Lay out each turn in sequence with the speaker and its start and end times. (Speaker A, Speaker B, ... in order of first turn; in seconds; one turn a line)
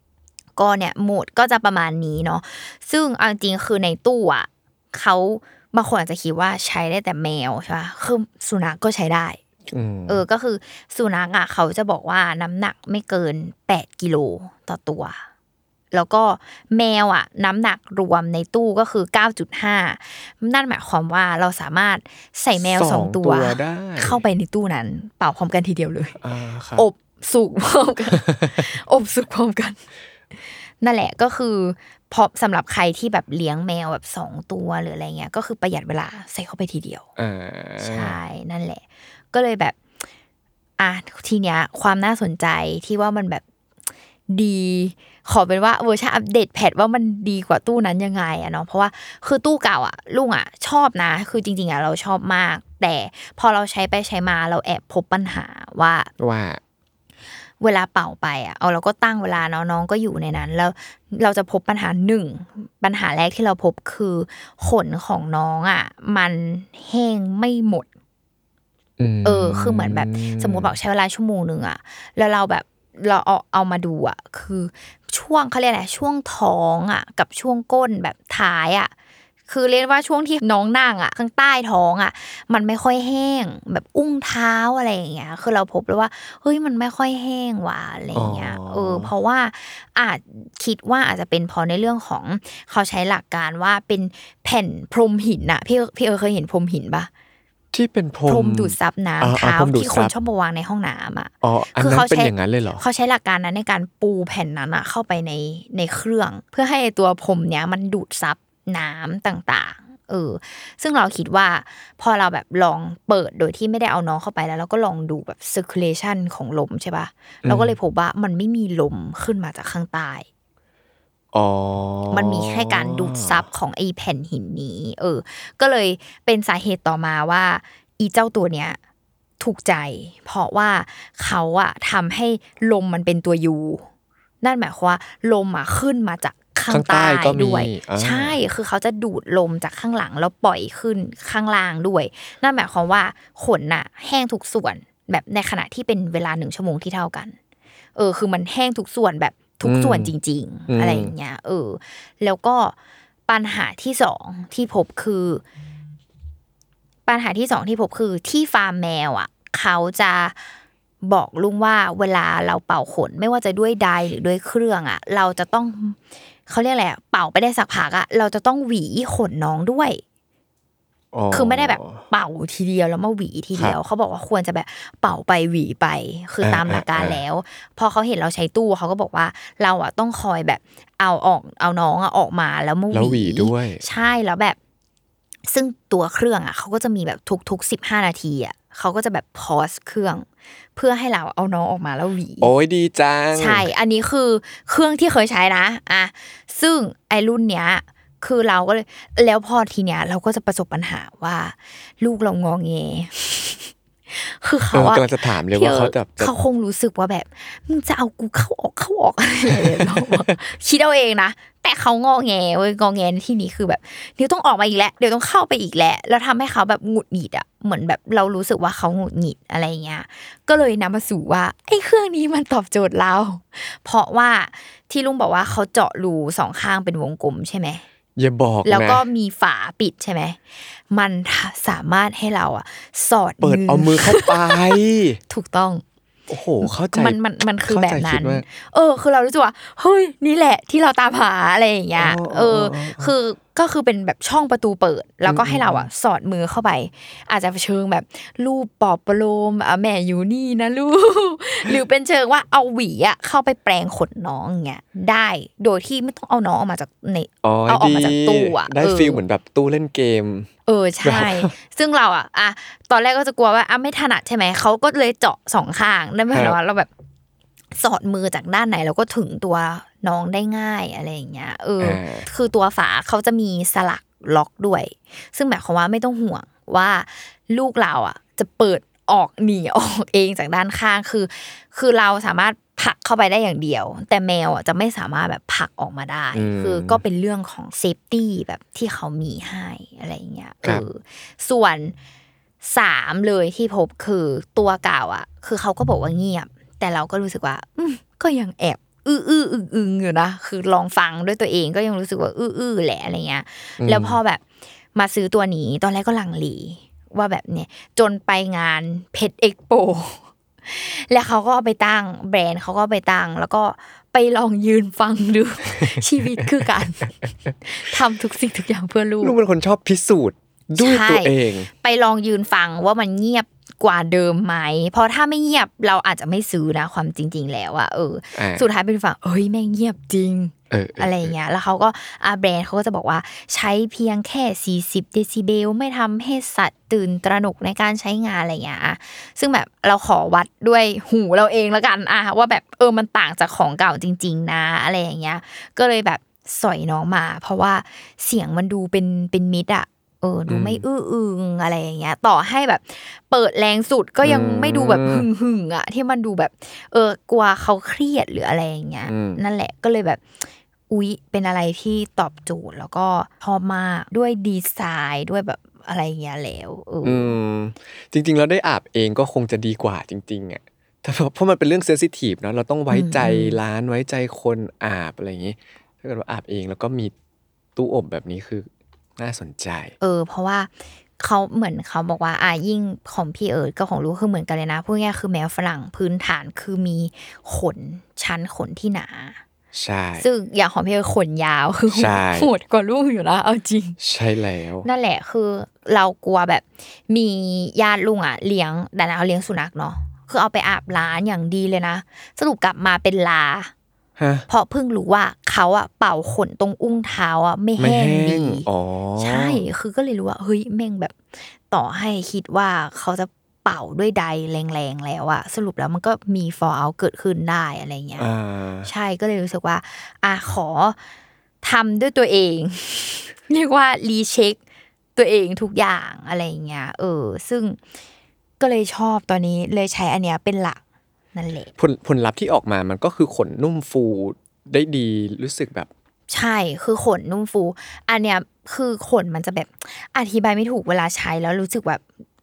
Speaker A: 0.6-9.4
Speaker B: 9.7-10.2
Speaker A: 10.1-15.2
Speaker A: 15.9-26.2
Speaker B: 22.6-24.2
Speaker B: 26.2-26.9
Speaker A: 26.7-29.8
Speaker A: 30.8-37.0
Speaker B: 37.2-38.2
Speaker A: 37.8-39.8
Speaker A: 40.8-43.4
Speaker A: 44.3-56.1
Speaker B: 56.2-56.6
Speaker A: 57.6-67.9
Speaker B: 69.0-70.7
Speaker A: 69.2-78.9
Speaker A: 79.5-97.1
Speaker B: 88.1-89.1
Speaker B: 97.7-100.1
Speaker A: 98.3-120.2
Speaker B: 101.4-102.8
Speaker B: 117.4-117.8
Speaker B: 121.3-123.5
Speaker A: 122.1-128.8
Speaker A: 129.4-133.8
Speaker A: 134.4-147.4
Speaker B: 136.7-138.4
Speaker A: 147.9-152.7
Speaker B: 149.6-150.1
Speaker B: 150.7-151.1
Speaker A: 153.3-155.4
Speaker A: 157.1-160.4
Speaker A: 161.0-170.0
Speaker B: 171.1-172.0
Speaker A: 171.3-184.6
Speaker B: 176.4-177.2
Speaker B: 182.9-183.8
Speaker A: 185.5-192.5
Speaker B: 192.4-193.7
Speaker A: 193.3-227.8
Speaker B: 204.7-206.3
Speaker B: 209.5-210.3
Speaker B: 228.2-229.0
Speaker A: 228.6-230.4
Speaker A: 230.9-235.8
Speaker B: 233.4-235.2
Speaker B: 236.3-238.4
Speaker A: 236.6-259.2
Speaker B: 242.0-243.1
Speaker B: 245.2-245.9
Speaker B: 257.4-260.5
Speaker A: 260.6-266.9
Speaker B: 261.0-261.5
Speaker B: 266.3-266.6
Speaker A: 267.7-291.9
Speaker B: 271.8-272.3
Speaker B: 286.3-287.0
Speaker A: 292.6-304.4
Speaker B: 303.8-304.2
Speaker A: 304.9-319.4
Speaker B: 319.2-321.7
Speaker A: 320.8-367.3
Speaker B: 328.3-328.6
Speaker B: 330.7-331.3
Speaker B: 350.5-350.8
Speaker B: 354.2-355.2
Speaker B: 359.1-359.4
Speaker B: 367.0-377.1
Speaker A: 372.9-373.6
Speaker B: 377.8-379.9
Speaker A: 380.0-389.4
Speaker B: 389.7-390.2
Speaker A: 390.2-394.0
Speaker B: 391.9-392.5
Speaker B: 394.0-394.9
Speaker A: 394.8-403.7
Speaker B: 404.2-404.4
Speaker A: 404.5-408.7
Speaker B: 407.8-409.6
Speaker A: 409.2-411.2
Speaker A: 411.7-418.2
Speaker B: 418.2-418.9
Speaker A: 418.8-421.0
Speaker A: 421.6-424.6
Speaker A: 425.1-427.8
Speaker A: 428.6-430.8
Speaker A: 431.3-431.7
Speaker B: 431.8-435.9
Speaker A: 436.3-442.0